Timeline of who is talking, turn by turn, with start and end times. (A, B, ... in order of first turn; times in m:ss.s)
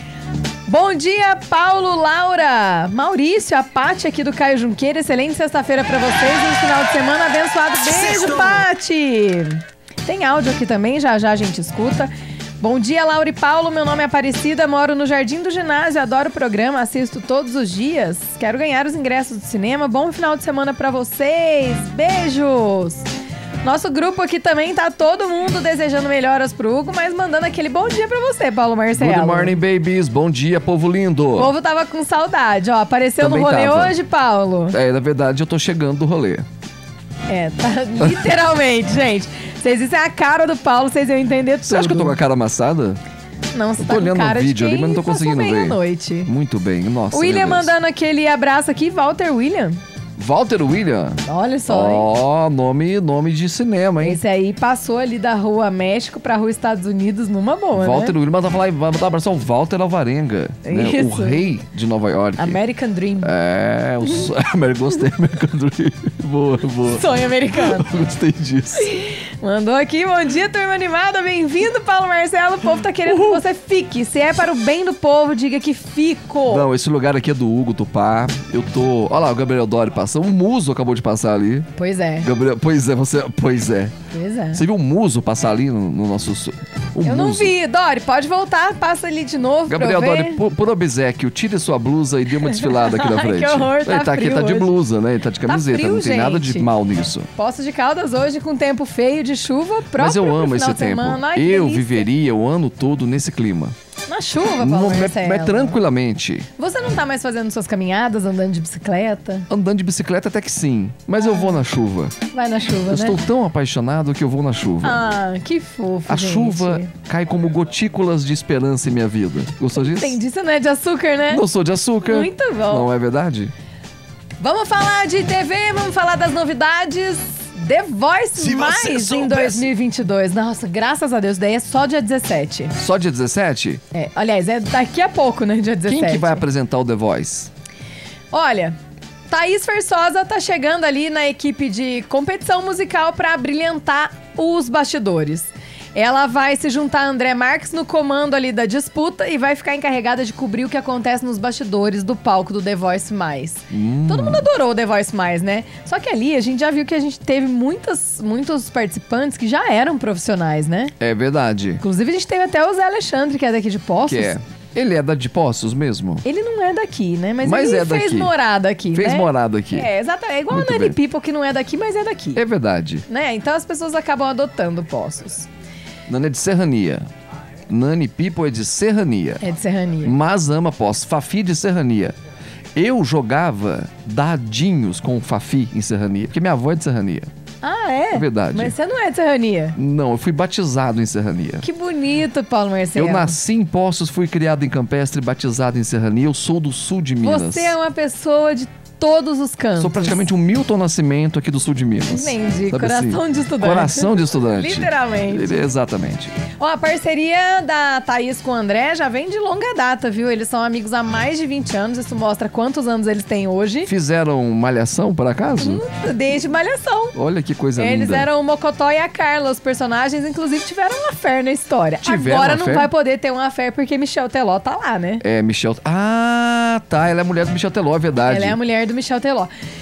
0:00.7-0:23.0 A
0:23.6-0:29.6 A
0:28.9-0:31.5 B
0:31.3-0:34.8 A
0:33.2-0:34.0 B
0:34.7-0:36.4 B
0:37.3-0:42.2 A
0:41.6-0:43.0 B
0:43.5-0:46.3 A
0:43.8-0:47.7 B
0:47.1-0:49.8 A
0:50.2-0:54.2 B
0:51.2-0:52.1 A
0:54.0-0:58.1 A
0:57.7-1:02.6 B
1:00.6-1:01.4 A
1:02.4-1:03.3 A
1:03.2-1:08.9 B
1:06.9-1:07.9 A
1:08.7-1:16.7 A
1:13.0-1:13.4 B
1:16.4-1:21.7 B
1:21.8-1:22.3 A
1:22.2-1:23.9 B
1:24.1-1:24.6 A
1:24.5-1:27.5 B
1:27.0-1:30.4 A
1:29.7-1:37.3 B
1:32.4-1:34.7 A
1:35.4-1:36.7 A
1:37.4-1:42.1 A
1:40.0-1:43.7 B
1:44.1-1:45.8 A
1:44.6-1:46.5 B
1:46.6-1:49.5 A
1:49.5-1:52.2 B
1:51.2-1:51.5 A
1:52.3-1:53.2 A
1:52.9-1:55.0 B
1:54.8-1:56.9 A
1:56.1-2:00.2 B
1:59.8-2:01.4 A
2:01.3-2:03.5 B
2:02.0-2:02.9 A
2:04.4-2:12.7 A
2:08.4-2:09.6 B
2:12.8-2:13.8 B
2:13.9-2:16.4 A
2:15.8-2:17.5 B
2:18.3-2:18.8 A
2:19.3-2:40.9 A
2:33.7-2:34.5 B
2:41.0-2:41.8 B
2:41.8-2:44.3 A
2:44.0-2:46.2 B
2:46.2-2:52.4 A
2:47.4-2:48.3 B
2:48.9-2:49.9 B
2:50.5-2:51.0 B
2:52.3-2:53.0 B
2:53.1-2:55.5 A
2:56.1-2:57.1 B
2:57.7-2:59.4 B
2:59.4-3:00.2 A
3:00.0-3:02.2 B
3:02.8-3:07.3 B
3:07.6-3:09.8 A
3:08.1-3:08.7 B
3:09.7-3:11.6 B
3:11.6-3:13.4 A
3:13.0-3:17.7 B
3:17.2-3:20.2 A
3:19.8-3:26.3 B
3:22.1-3:25.5 A
3:26.6-3:33.9 A
3:33.8-3:35.8 B
3:35.6-3:37.2 A
3:37.1-3:38.3 B
3:37.8-3:45.2 A
3:42.0-3:42.9 B
3:45.2-3:48.6 B
3:48.3-3:49.5 A